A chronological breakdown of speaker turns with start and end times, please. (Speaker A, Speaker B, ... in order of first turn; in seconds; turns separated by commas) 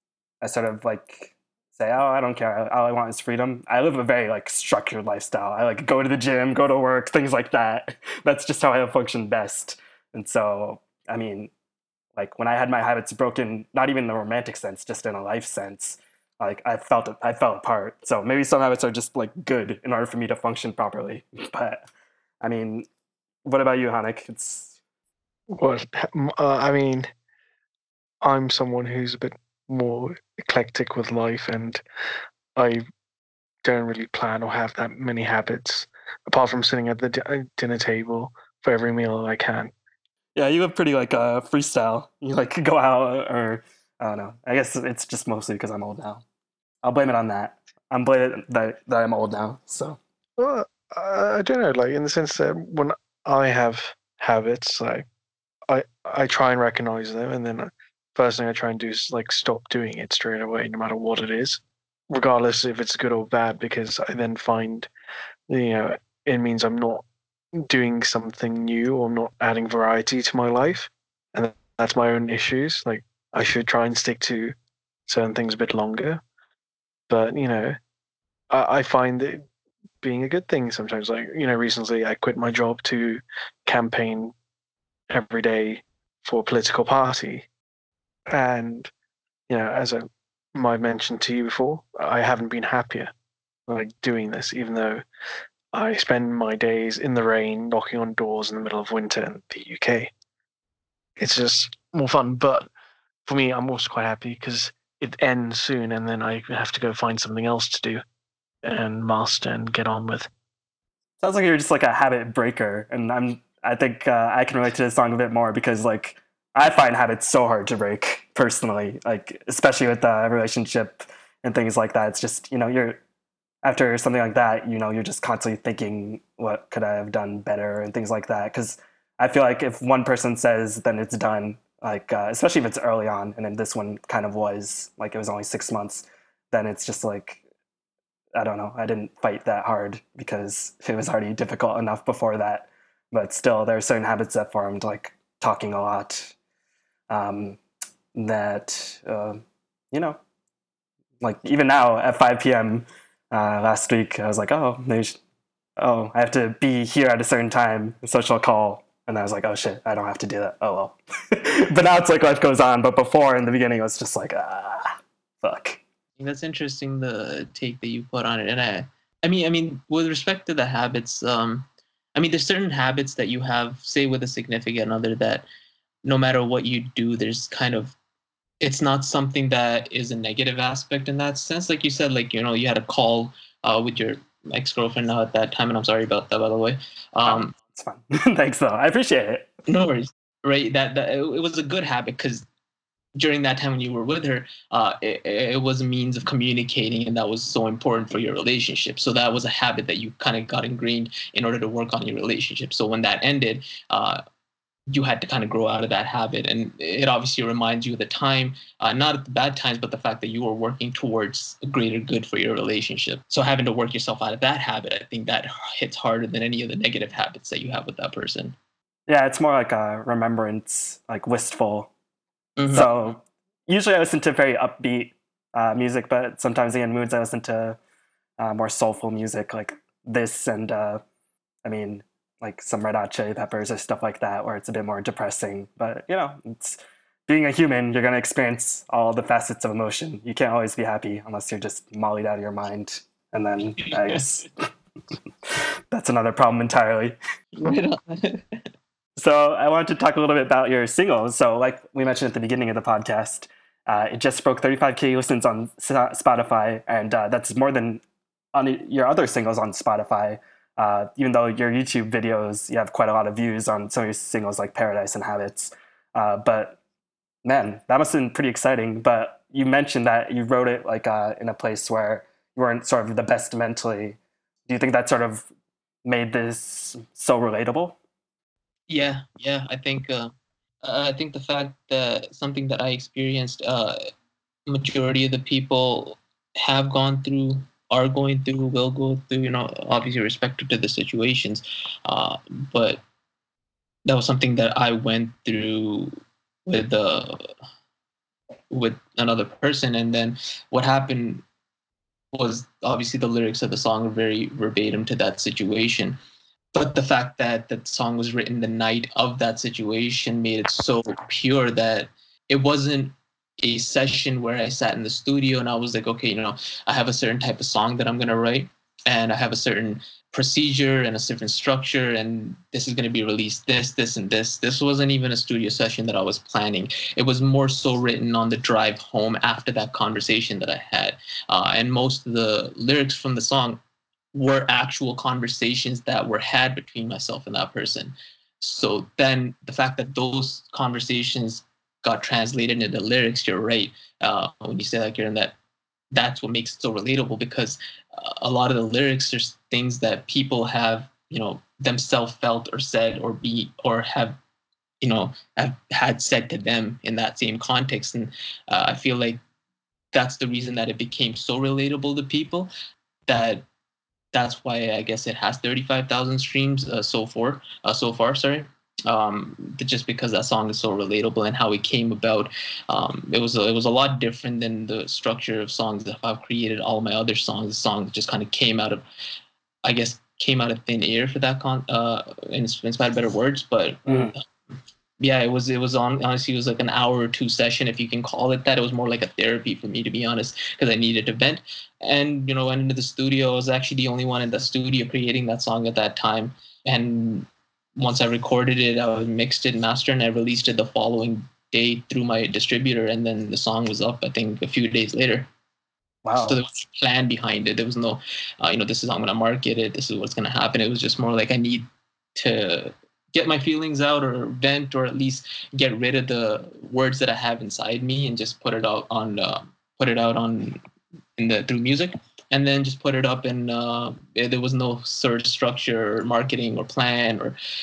Speaker A: 0.4-11.5, Speaker A: 12.1-21.9, Speaker A: 22.4-22.9, Speaker A: 23.4-24.7, Speaker B: 25.5-27.1, Speaker B: 28.2-31.8, Speaker B: 32.5-32.8, Speaker B: 33.6-39.7, Speaker A: 40.4-46.2, Speaker A: 46.8-50.0, Speaker B: 50.4-55.0, Speaker B: 55.7-64.9, Speaker B: 65.5-74.5, Speaker B: 75.1-76.2, Speaker B: 77.1-77.8, Speaker B: 78.5-79.4, Speaker B: 80.0-84.3, Speaker B: 85.1-87.5, Speaker B: 88.3-88.9, Speaker B: 89.5-93.1, Speaker B: 93.7-95.0, Speaker B: 95.7-100.1, Speaker B: 101.2-102.7, Speaker B: 103.2-108.0, Speaker B: 108.6-110.3, Speaker A: 111.2-123.0, Speaker A: 123.6-137.4, Speaker A: 138.3-146.3, Speaker A: 147.1-147.6, Speaker A: 148.1-149.4, Speaker A: 149.9-150.2, Speaker A: 151.2-155.2, Speaker A: 155.8-165.8, Speaker C: 166.2-175.4, Speaker C: 176.0-177.9, Speaker C: 178.6-187.5, Speaker A: 187.2-189.5, Speaker C: 189.7-192.4, Speaker C: 193.2-204.2, Speaker C: 204.9-218.6, Speaker A: 219.1-221.9, Speaker C: 222.6-222.9, Speaker A: 222.7-227.8, Speaker A: 228.4-231.0, Speaker A: 231.6-244.5, Speaker C: 243.8-244.4, Speaker A: 245.9-247.2, Speaker C: 247.6-248.6, Speaker A: 249.2-258.0, Speaker A: 258.5-266.8, Speaker A: 267.4-275.5, Speaker A: 276.0-278.0, Speaker C: 278.9-284.0, Speaker C: 284.7-293.0, Speaker C: 294.0-296.1, Speaker C: 296.6-297.4, Speaker C: 298.7-301.4, Speaker C: 302.3-306.2, Speaker C: 306.7-333.8, Speaker C: 334.3-345.6, Speaker C: 346.1-354.4, Speaker C: 355.0-359.4, Speaker C: 360.1-362.7, Speaker C: 363.3-363.6, Speaker C: 364.3-379.0, Speaker C: 379.8-384.5, Speaker C: 385.2-405.5, Speaker A: 406.2-406.6, Speaker C: 406.4-411.8, Speaker C: 412.4-420.8, Speaker C: 421.4-427.6